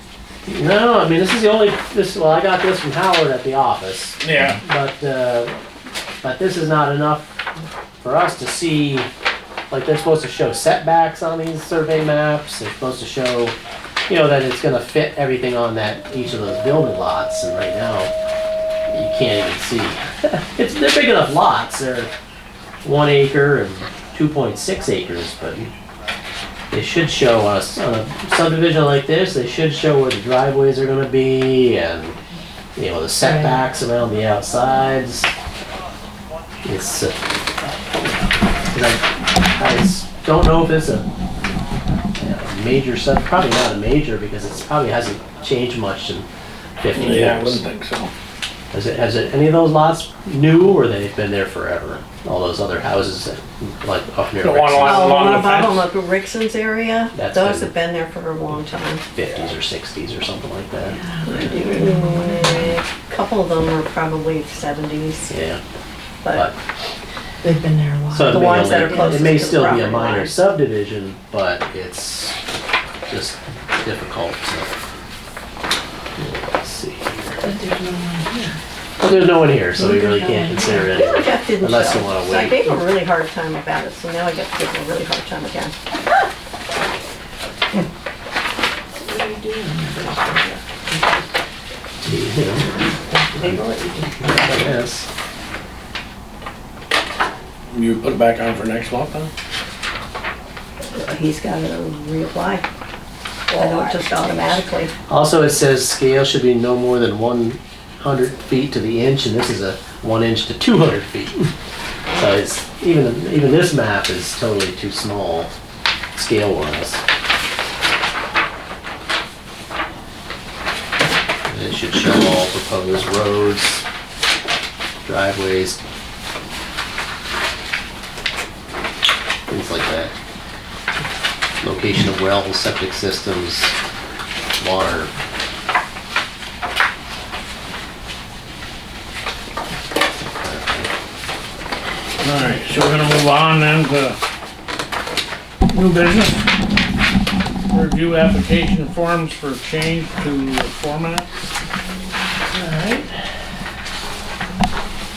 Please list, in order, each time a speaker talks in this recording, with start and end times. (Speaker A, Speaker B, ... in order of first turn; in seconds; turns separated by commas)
Speaker A: 0.4-5.6, Speaker B: 4.2-4.6, Speaker A: 6.2-7.4, Speaker A: 8.0-9.1, Speaker A: 9.7-13.6, Speaker A: 14.1-18.1, Speaker A: 18.9-22.1, Speaker A: 22.8-25.7, Speaker A: 26.7-32.2, Speaker A: 32.8-35.3, Speaker C: 33.2-33.6, Speaker A: 36.6-37.1, Speaker A: 38.7-41.0, Speaker A: 42.2-46.3, Speaker A: 46.8-47.6, Speaker B: 46.9-48.1, Speaker A: 48.7-55.2, Speaker B: 54.4-55.8, Speaker D: 54.8-59.0, Speaker A: 57.1-57.7, Speaker A: 59.1-61.0, Speaker C: 60.8-62.8, Speaker D: 61.2-65.3, Speaker A: 65.3-65.6, Speaker C: 67.4-69.5, Speaker A: 68.1-72.4, Speaker D: 68.3-70.3, Speaker A: 73.1-74.7, Speaker A: 76.2-77.4, Speaker C: 77.4-78.6, Speaker A: 79.0-82.7, Speaker C: 79.7-81.3, Speaker D: 81.0-85.7, Speaker C: 88.9-91.3, Speaker A: 92.0-92.7, Speaker C: 92.8-94.7, Speaker A: 94.2-95.1, Speaker B: 97.7-99.3, Speaker D: 100.9-102.7, Speaker D: 103.5-104.9, Speaker C: 103.5-104.0, Speaker A: 105.1-111.5, Speaker A: 112.2-115.5, Speaker A: 116.1-117.0, Speaker A: 121.5-123.8, Speaker A: 125.0-125.8, Speaker A: 129.5-130.1, Speaker A: 131.6-133.8, Speaker A: 134.6-135.1, Speaker A: 140.2-140.9, Speaker B: 142.2-144.2, Speaker B: 145.7-146.5, Speaker B: 147.7-151.3, Speaker A: 152.6-153.1